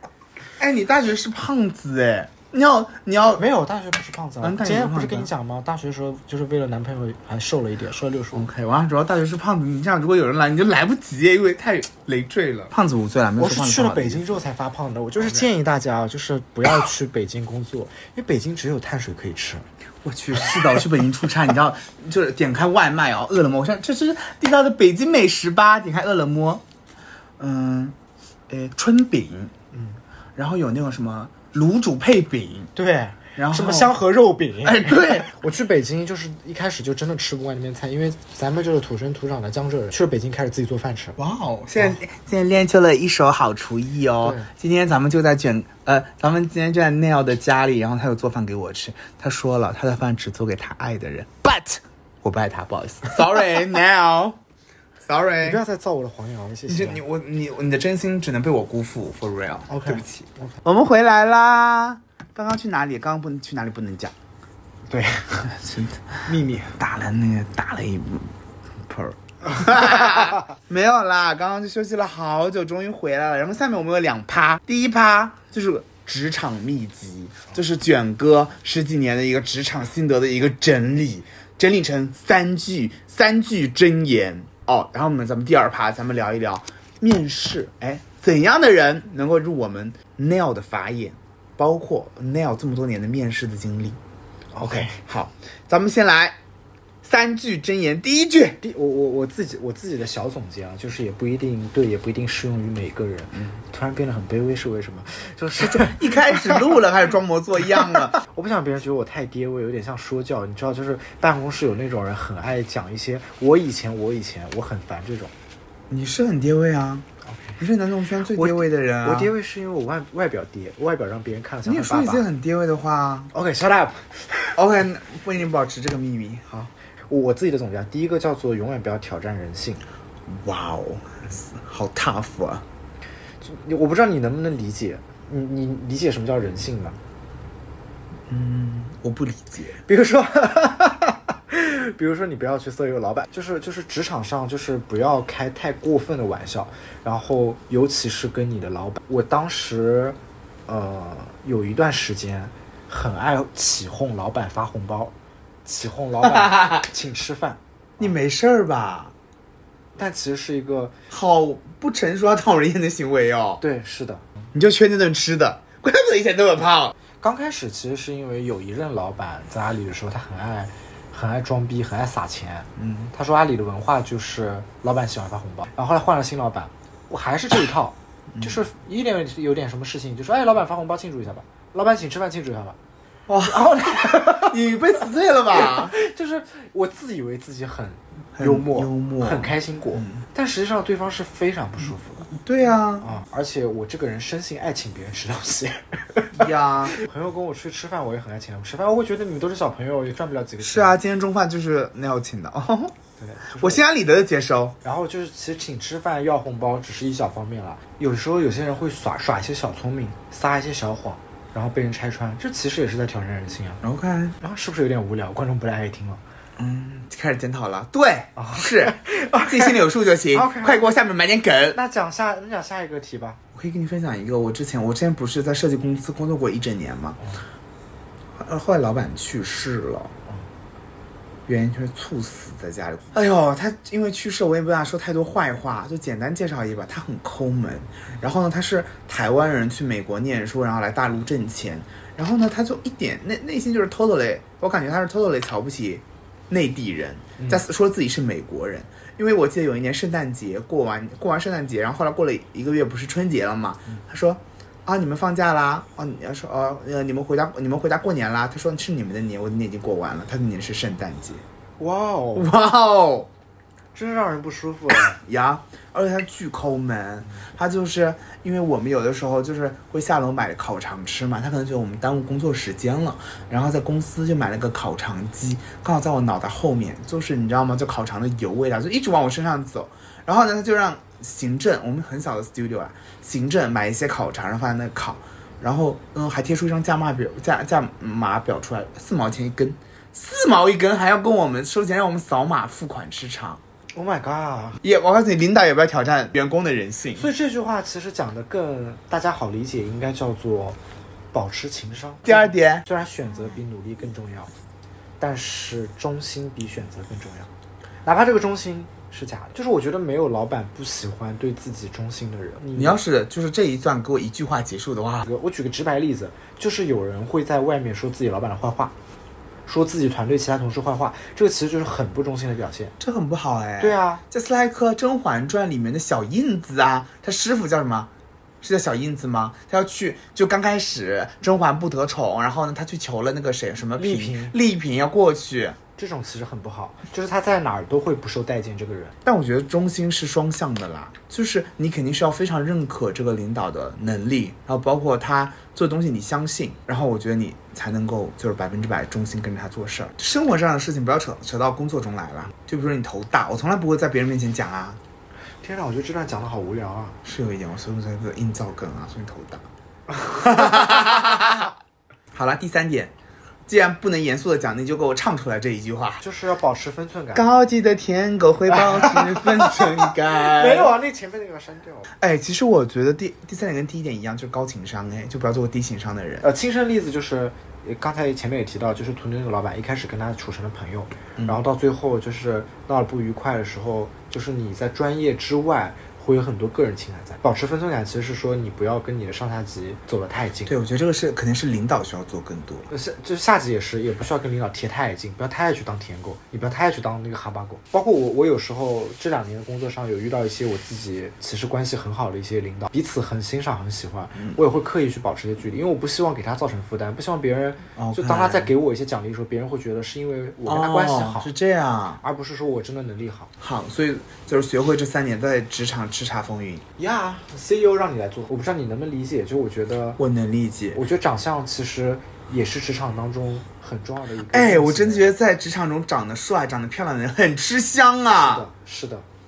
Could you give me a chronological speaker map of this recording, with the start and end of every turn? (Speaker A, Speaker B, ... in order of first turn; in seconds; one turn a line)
Speaker A: 0.6-3.5
Speaker B: 3.4-8.5
Speaker A: 4.4-5.3
Speaker A: 8.3-14.4
Speaker B: 13.4-19.7
Speaker A: 20.0-26.6
Speaker A: 27.4-28.0
Speaker A: 28.5-29.5
Speaker B: 29.7-30.0
Speaker A: 30.4-32.7
Speaker B: 32.8-41.2
Speaker A: 33.4-34.0
Speaker A: 34.6-35.3
Speaker A: 41.2-54.4
Speaker B: 44.2-44.5
Speaker A: 55.0-55.6
Speaker B: 55.4-57.0
Speaker A: 56.7-64.1
Speaker B: 59.7-60.5
Speaker B: 64.9-65.5
Speaker A: 65.5-66.3
Speaker B: 66.3-66.8
Speaker A: 66.8-68.3
Speaker A: 68.9-94.0
Speaker B: 69.6-70.2
Speaker B: 94.5-95.0
Speaker A: 94.6-96.4
Speaker A: 97.0-98.6
Speaker B: 98.6-106.7
Speaker A: 105.6-108.2
Speaker B: 108.0-115.3
Speaker A: 115.9-117.1
Speaker B: 117.3-117.6
Speaker A: 117.6-119.3
Speaker B: 118.3-122.3
Speaker A: 121.7-123.3
Speaker B: 123.3-124.5
Speaker A: 124.5-126.5
Speaker B: 126.5-129.8
Speaker A: 130.3-132.6
Speaker B: 133.4-137.0
Speaker A: 138.3-139.8
Speaker B: 139.9-155.1
Speaker B: 155.7-158.1
Speaker A: 158.0-159.1
Speaker B: 160.0-160.9
Speaker A: 161.1-163.6
Speaker B: 163.6-164.2
Speaker A: 164.5-166.9
Speaker B: 167.2-182.8
Speaker A: 172.8-173.1
Speaker A: 183.3-185.9
Speaker B: 183.4-184.7
Speaker B: 185.5-192.3
Speaker A: 188.4-190.2
Speaker A: 192.3-193.1
Speaker B: 193.0-201.0
Speaker A: 196.3-197.0
Speaker A: 200.6-203.0
Speaker B: 203.2-203.8
Speaker A: 203.6-204.8
Speaker B: 204.8-213.8
Speaker A: 213.8-214.4
Speaker B: 214.4-216.2
Speaker A: 216.6-221.8
Speaker B: 218.4-220.9
Speaker B: 221.7-223.4
Speaker A: 223.6-227.2
Speaker A: 228.4-230.2
Speaker A: 231.5-261.4
Speaker B: 261.8-262.5
Speaker A: 262.4-263.3
Speaker B: 263.9-265.2
Speaker A: 265.2-293.6
Speaker B: 293.9-294.8
Speaker A: 294.8-297.3
Speaker B: 297.2-300.8
Speaker B: 301.3-304.5
Speaker A: 302.2-302.9
Speaker B: 305.2-307.5
Speaker B: 308.1-313.0
Speaker A: 312.7-315.2
Speaker B: 315.2-318.9
Speaker B: 319.7-322.9
Speaker A: 323.0-328.1
Speaker B: 323.8-324.2
Speaker A: 328.6-335.8
Speaker B: 334.0-334.6
Speaker B: 336.0-339.1
Speaker A: 339.2-355.0
Speaker B: 355.6-357.2
Speaker A: 357.2-359.6
Speaker A: 360.3-361.7
Speaker B: 360.3-361.1
Speaker A: 362.3-363.1
Speaker A: 363.7-366.2
Speaker B: 366.2-367.5
Speaker A: 367.3-370.9
Speaker B: 368.7-372.1
Speaker A: 372.2-376.5
Speaker B: 376.4-390.7
Speaker A: 390.7-392.9
Speaker B: 392.9-411.5
Speaker A: 408.0-408.7
Speaker A: 410.6-412.2
Speaker B: 412.2-413.5
Speaker A: 413.6-416.9
Speaker B: 417.0-420.2
Speaker A: 420.2-421.0
Speaker B: 420.9-425.3
Speaker A: 424.5-428.7
Speaker B: 428.4-429.3